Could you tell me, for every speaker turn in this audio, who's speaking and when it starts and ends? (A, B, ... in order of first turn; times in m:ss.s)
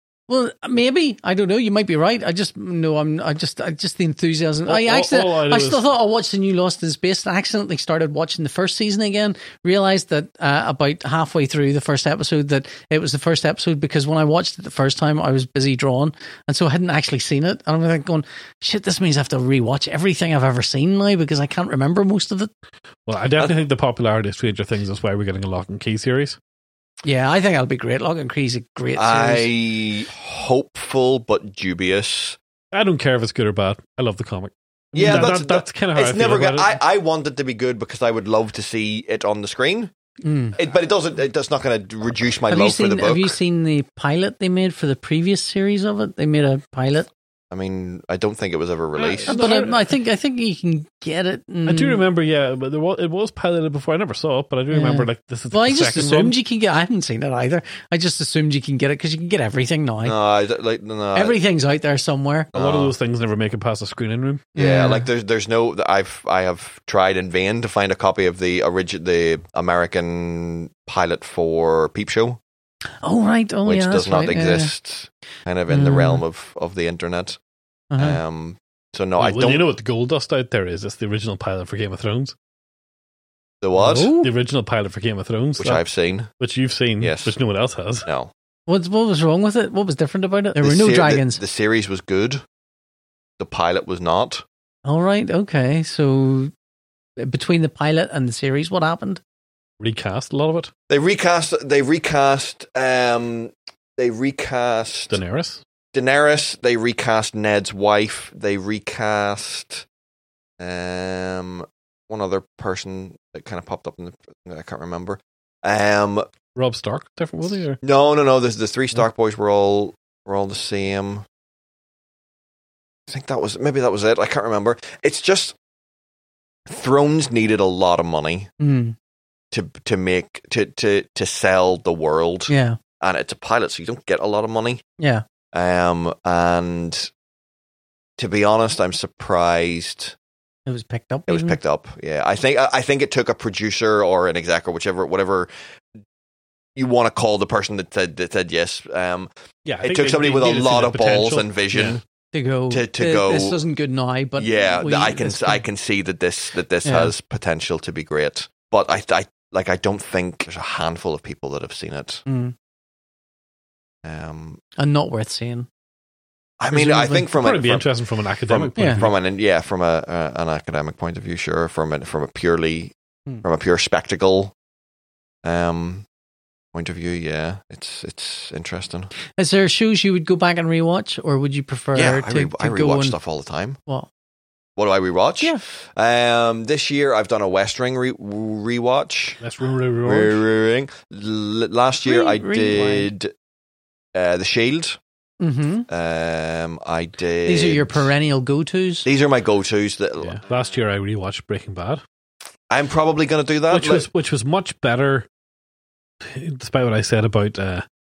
0:00.3-0:22.5 A
0:04.7-0:05.8 B
0:23.0-0:26.4 B
0:27.0-0:29.5 A
0:28.9-0:32.4 C
0:32.7-0:36.7 B
0:34.9-0:39.9 C
0:40.2-0:40.6 A
0:40.5-0:43.4 C
0:42.5-0:47.1 A
0:47.5-0:49.3 C
0:49.0-0:49.9 B
0:49.3-0:52.0 A
0:51.6-0:56.3 B
0:54.7-1:00.2 A
1:00.0-1:01.4 C
1:01.1-1:02.5 A
1:02.5-1:02.9 C
1:02.5-1:04.5 B
1:04.5-1:05.1 A
1:04.6-1:12.4 C
1:13.0-1:14.7 A
1:13.6-1:17.4 C
1:15.7-1:16.2 A
1:17.9-1:18.2 A
1:18.0-1:19.7 C
1:19.2-1:22.3 B
1:23.6-1:24.1 C
1:23.8-1:24.3 A
1:24.1-1:25.8 B
1:25.6-1:26.3 C
1:26.4-1:28.1 B
1:27.0-1:27.3 C
1:28.0-1:28.3 C
1:28.7-1:31.4 A
1:30.6-1:32.4 C
1:33.4-1:34.4 C
1:34.8-1:36.5 A
1:37.2-1:39.2 A
1:39.8-1:40.7 B
1:40.9-1:45.2 C
1:45.1-1:45.6 B
1:45.9-1:49.8 C
1:50.6-1:56.2 C
1:56.6-1:57.8 B
1:57.8-2:01.2 C
2:03.1-2:05.6 C
2:06.7-2:08.5 C
2:08.6-2:08.9 A
2:09.5-2:14.8 C
2:12.5-2:12.8 A
2:15.0-2:15.2 A
2:15.5-2:17.1 C
2:18.2-2:20.1 C
2:20.6-2:21.6 A
2:21.3-2:25.5 C
2:26.8-2:29.3 C
2:29.6-2:32.0 B
2:29.8-2:32.0 C
2:32.3-2:35.6 A
2:32.7-2:33.6 C
2:34.4-2:42.2 C
2:36.8-2:37.1 A
2:42.3-2:42.5 A
2:44.0-2:44.6 C
2:44.8-2:45.7 A
2:46.6-2:47.9 C
2:46.7-2:47.2 A
2:47.3-2:49.2 B
2:48.5-2:54.5 C
2:55.4-2:56.0 C
2:56.7-2:59.1 C
2:59.4-3:03.2 A
3:01.9-3:03.8 C
3:04.8-3:09.4 C
3:09.4-3:10.4 B
3:10.0-3:13.3 C
3:12.0-3:13.1 A
3:14.1-3:15.0 C
3:15.4-3:15.9 A
3:15.9-3:18.1 C
3:17.4-3:19.1 A
3:19.0-3:20.4 C
3:20.2-3:22.0 B
3:22.7-3:24.0 C
3:23.7-3:25.3 B
3:26.2-3:27.8 B